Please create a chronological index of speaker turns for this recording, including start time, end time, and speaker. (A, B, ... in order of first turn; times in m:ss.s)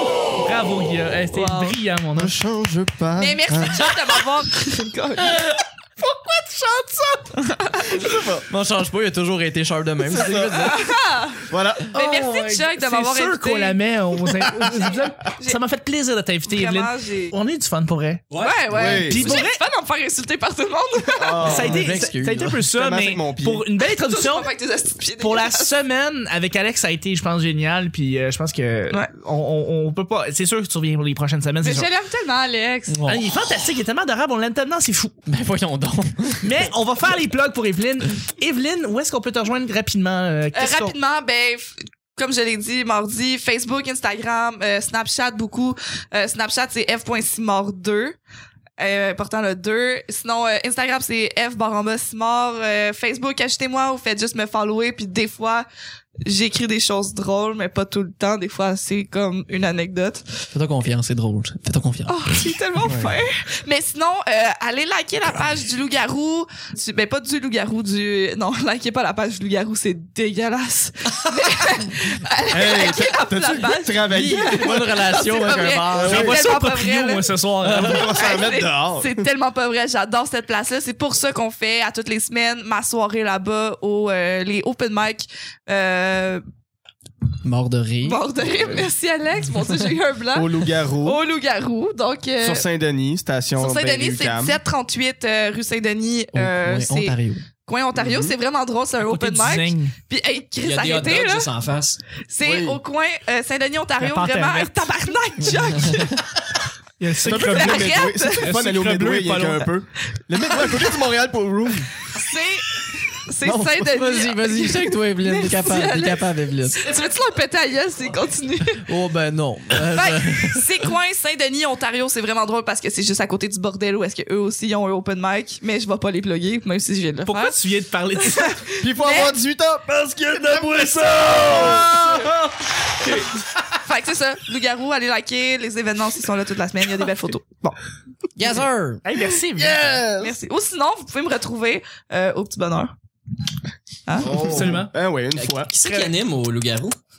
0:00.4-0:02.4 A
0:01.3-0:01.8 B
0:02.2-0:03.9 C
0:03.2-0:05.5 B
0:06.0-0:08.0 B
0:08.0-0:08.4 C
0:08.5-0:10.8 D
0:10.0-0:10.7 C
0:10.6-0:13.8 B
0:11.5-0:11.9 C
0:11.9-0:18.2 A
0:14.6-0:15.6 B
0:16.5-0:17.3 B
0:18.3-0:19.0 E
0:18.4-0:21.6 B
0:18.7-0:19.4 C
0:18.8-0:19.6 A
0:21.2-0:22.0 C
0:21.4-0:24.5 A
0:21.5-0:22.6 D
0:22.7-0:23.6 C
0:23.8-0:25.7 B
0:25.2-0:31.9 A
0:31.6-0:32.9 B
0:32.9-0:33.3 D
0:33.0-0:35.1 A
0:35.3-0:36.7 D
0:36.4-0:40.9 A
0:40.5-0:48.2 B
0:48.8-0:55.7 B
0:56.2-1:00.2 B
1:00.5-1:02.4 D
1:02.1-1:17.3 B
1:02.8-1:03.2 C
1:12.5-1:15.0 C
1:14.1-1:16.4 D
1:16.0-1:16.4 C
1:16.0-1:18.1 A
1:17.6-1:19.3 C
1:17.8-1:26.4 B
1:27.4-1:28.2 D
1:28.0-1:32.6 B
1:30.3-1:31.2 C
1:32.4-1:34.6 C
1:33.6-1:41.5 B
1:36.3-1:37.4 D
1:37.9-1:38.3 C
1:39.0-1:39.9 A
1:40.6-1:42.0 E
1:42.3-1:46.2 B
1:42.4-1:42.8 C
1:44.0-1:44.8 A
1:45.4-1:46.3 D
1:47.0-1:49.7 A
1:47.2-1:51.9 C
1:47.3-1:48.5 B
1:50.6-1:50.9 B
1:52.1-1:58.8 B
1:53.4-1:53.8 C
1:53.8-1:56.8 D
1:58.8-2:00.7 D
1:59.7-2:07.6 B
2:07.2-2:08.6 A
2:08.2-2:09.4 B
2:08.8-2:12.2 C
2:11.5-2:12.3 B
2:13.8-2:17.8 B
2:18.4-2:19.0 D
2:19.0-2:19.8 A
2:19.6-2:20.3 C
2:20.2-2:22.9 B
2:24.0-2:24.6 B
2:24.2-2:25.7 C
2:24.3-2:24.9 A
2:25.4-2:27.0 E
2:25.8-2:26.1 A